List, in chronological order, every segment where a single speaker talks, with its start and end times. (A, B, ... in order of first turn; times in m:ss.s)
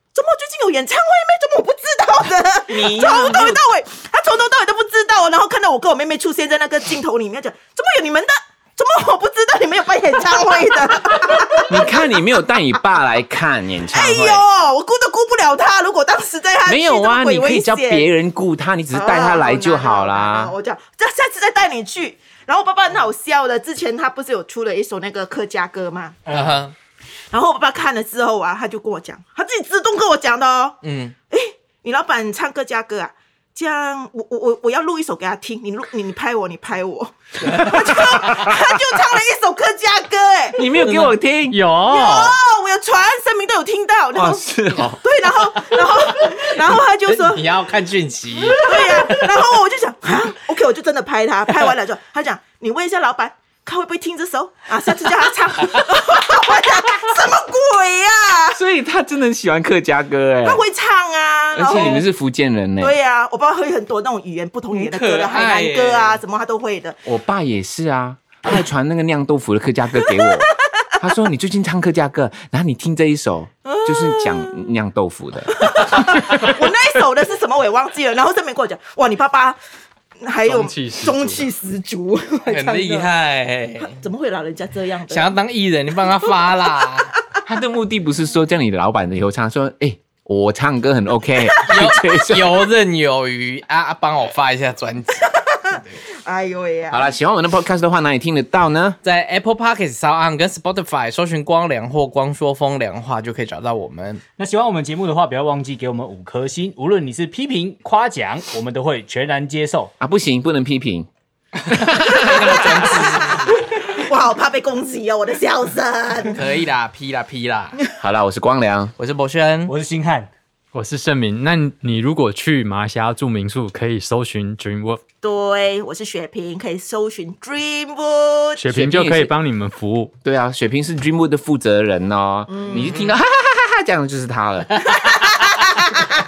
0:00.1-0:12.1 A
0:02.7-0:03.6 B
0:11.7-0:14.4 B
0:13.9-0:18.1 A
0:16.6-0:20.5 B
0:18.9-0:26.2 A
0:26.3-0:26.7 C
0:27.3-0:30.8 A
0:30.8-0:31.1 C
0:31.3-0:40.6 A
0:37.4-0:37.7 C
0:37.4-0:38.7 B
0:40.5-0:41.6 B
0:40.8-0:42.4 C
0:41.5-0:42.2 D
0:41.9-0:47.4 A
0:44.1-0:45.0 B
0:45.8-0:49.2 C
0:48.6-0:58.6 A
0:48.7-0:49.0 B
0:58.5-1:00.6 B
1:00.4-1:02.0 A
1:01.5-1:02.9 B
1:01.7-1:02.0 C
1:02.8-1:07.0 A
1:04.7-1:06.2 C
1:07.0-1:16.5 B
1:13.6-1:14.7 A
1:15.5-1:19.6 A
1:20.2-1:23.1 A
1:20.4-1:21.5 D
1:22.5-1:24.0 C
1:23.9-1:25.3 A
1:25.1-1:27.1 C
1:27.4-1:32.7 B
1:31.7-1:35.9 C
1:35.5-1:37.1 A
1:36.9-1:39.0 B
1:39.0-1:44.2 C
1:44.4-1:49.9 E
1:50.0-1:51.1 B
1:51.7-1:53.0 B
1:51.7-1:53.6 C
1:52.3-1:56.4 A
1:56.3-1:57.8 C
1:58.0-1:58.9 B
1:59.0-1:59.7 C
1:59.7-2:00.3 E
2:00.7-2:05.0 D
2:05.2-2:08.6 A
2:08.6-2:10.1 D
2:08.7-2:09.3 B
2:10.2-2:15.0 B
2:12.5-2:12.9 A
2:12.7-2:13.2 C
2:15.0-2:16.0 A